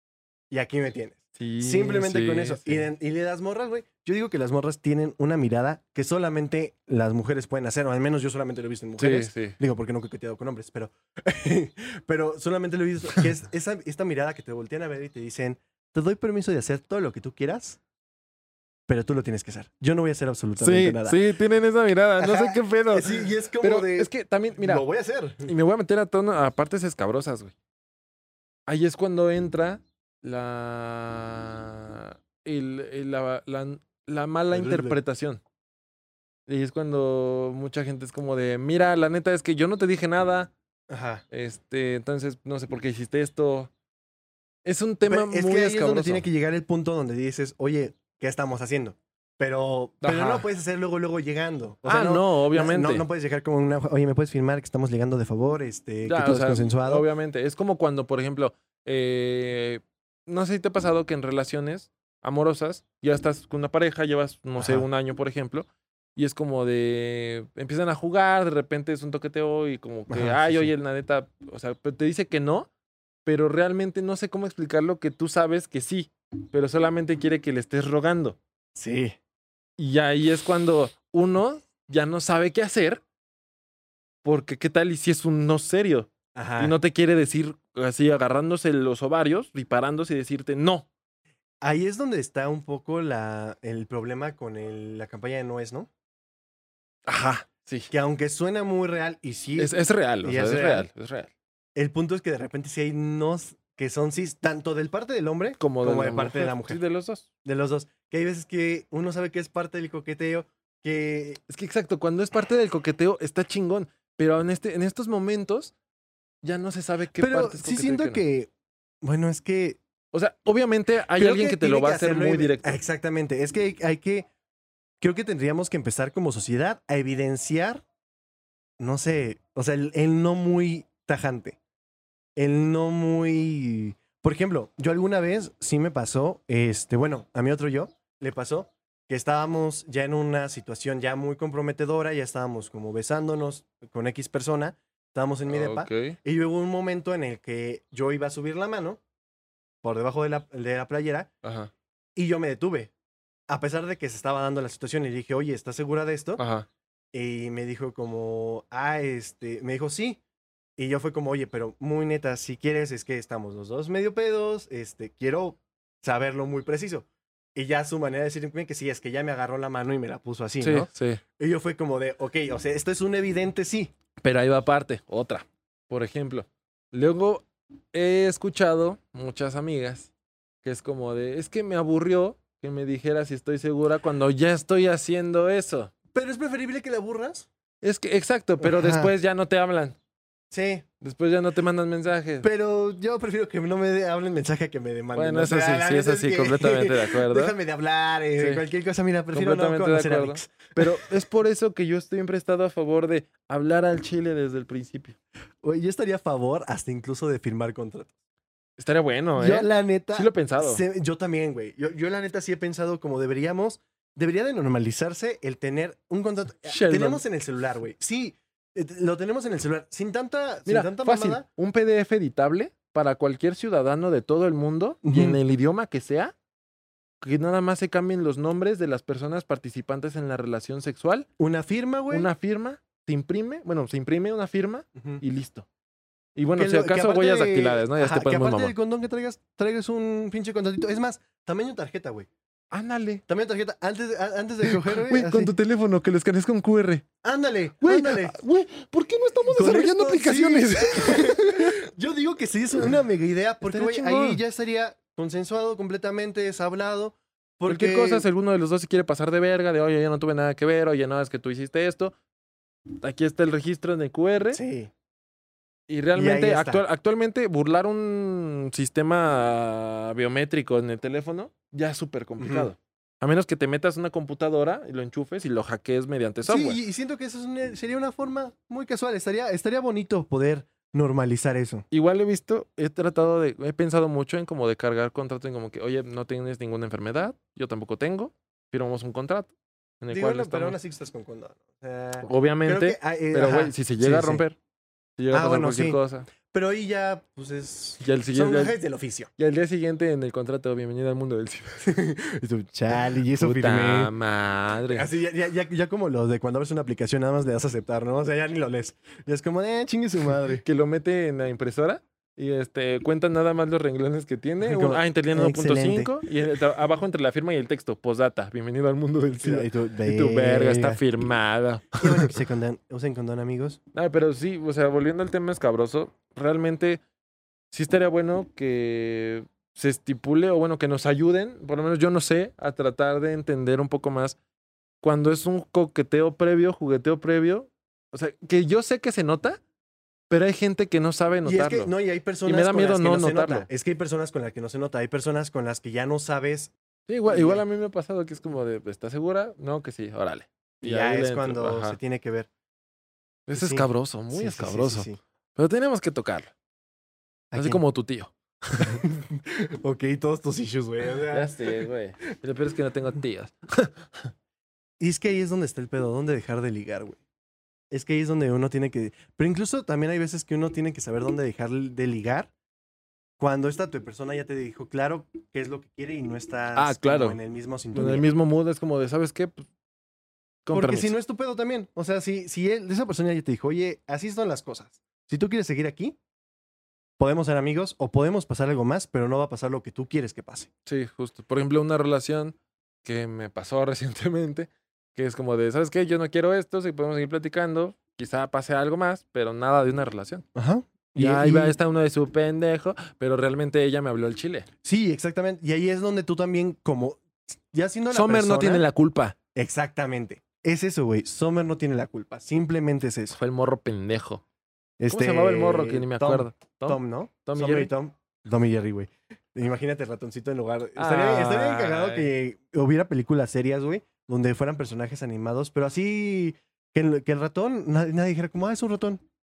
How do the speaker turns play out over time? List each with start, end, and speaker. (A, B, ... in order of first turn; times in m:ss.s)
0:00.5-0:17.8 A
0:01.4-0:02.9 B
0:09.0-0:09.6 B
0:18.9-0:21.2 A
0:20.6-0:24.8 B
0:22.2-0:25.5 A
0:25.5-0:27.5 B
0:28.7-0:35.4 B
0:34.5-0:35.0 A
0:36.5-0:40.5 B
0:40.9-0:41.2 A
0:41.3-0:43.7 B
0:44.6-0:46.3 B
0:45.1-0:57.1 A
0:50.0-0:50.5 B
0:51.8-0:53.0 B
0:56.1-1:12.7 B
1:04.6-1:04.9 A
1:10.1-1:10.7 A
1:13.2-1:18.4 B
1:18.8-1:19.2 A
1:19.8-1:23.0 B
1:24.2-1:30.9 B
1:26.4-1:26.8 A
1:31.6-1:35.9 A
1:37.1-1:37.9 B
1:37.9-1:40.9 A
1:39.6-1:41.3 B
1:41.8-1:46.8 A
1:45.6-1:47.3 B
1:47.4-1:51.4 A
1:51.5-1:55.7 B
1:56.4-1:58.2 B
1:57.2-1:58.5 A
1:59.0-1:59.8 A
2:00.1-2:02.8 B
2:01.2-2:04.3 A
2:05.0-2:07.8 A
2:08.8-2:11.6 A
2:12.4-2:29.0 A
2:25.5-2:26.2 B
2:29.8-2:31.3 A
2:31.4-2:31.7 B
2:32.2-2:32.9 A
2:33.5-2:36.4 A
2:36.4-2:36.7 B
2:37.1-2:40.2 A
2:40.8-2:53.9 A
2:50.6-2:51.2 B
2:54.2-3:00.1 B
3:00.6-3:05.9 B
3:06.1-3:07.5 A
3:07.8-3:10.0 B
3:08.6-3:09.1 A
3:10.5-3:10.8 A
3:11.0-3:12.5 B
3:12.4-3:21.1 A
3:15.1-3:17.6 B
3:18.4-3:18.6 B
3:19.3-3:25.2 B
3:25.6-3:28.1 A
3:28.8-3:30.8 B
3:29.4-3:41.5 A
3:36.6-3:37.2 B
3:40.7-3:46.3 B
3:45.0-3:45.4 A
3:47.2-3:51.3 B
3:51.4-3:52.3 A
3:52.1-3:55.7 B
3:55.0-3:55.2 A
3:56.4-3:58.7 B
3:56.6-4:02.3 A
4:02.7-4:03.2 B
4:03.3-4:05.5 A
4:04.6-4:07.0 B
4:07.2-4:08.4 A
4:07.8-4:11.8 B
4:09.5-4:18.3 A
4:13.6-4:14.4 B
4:17.7-4:22.2 B
4:23.0-4:24.6 B
4:24.5-4:24.9 A
4:25.9-4:36.8 B
4:26.1-4:26.8 A
4:32.4-4:32.7 A
4:36.5-4:41.9 A
4:41.9-4:50.8 B
4:50.1-4:54.4 A
4:52.2-4:54.6 B
4:55.2-4:56.3 B
4:55.3-4:59.3 A
4:58.0-4:58.8 B
4:59.4-5:01.9 B
5:01.8-5:04.1 A
5:02.9-5:05.1 B
5:04.9-5:10.6 A
5:10.6-5:22.4 B
5:14.6-5:16.2 A
5:19.4-5:21.0 A
5:22.0-5:23.8 A
5:23.9-5:27.0 B
5:27.7-5:34.4 B
5:35.0-5:39.6 B
5:40.3-5:41.9 B
5:41.4-5:46.7 A
5:42.4-5:43.7 B
5:47.1-5:52.0 B
5:47.3-5:47.6 A
5:50.8-5:52.5 A
5:53.5-5:56.5 B
5:53.5-5:55.2 A
5:57.5-5:57.8 A
5:57.6-5:59.0 B
5:58.8-6:01.9 A
6:01.3-6:04.3 B
6:05.0-6:07.2 A
6:07.9-6:12.5 A
6:13.4-6:18.3 A
6:16.8-6:17.4 B
6:17.9-6:19.7 B
6:20.6-6:21.2 B
6:20.7-6:26.2 A
6:27.2-6:30.7 A
6:30.9-6:40.4 B
6:40.6-6:41.8 A
6:41.2-6:44.7 B
6:44.8-6:48.8 A
6:48.1-6:49.4 B
6:49.6-6:53.4 A
6:53.3-6:54.4 B
6:55.0-7:09.2 A
6:55.1-6:57.9 B
7:01.0-7:02.3 B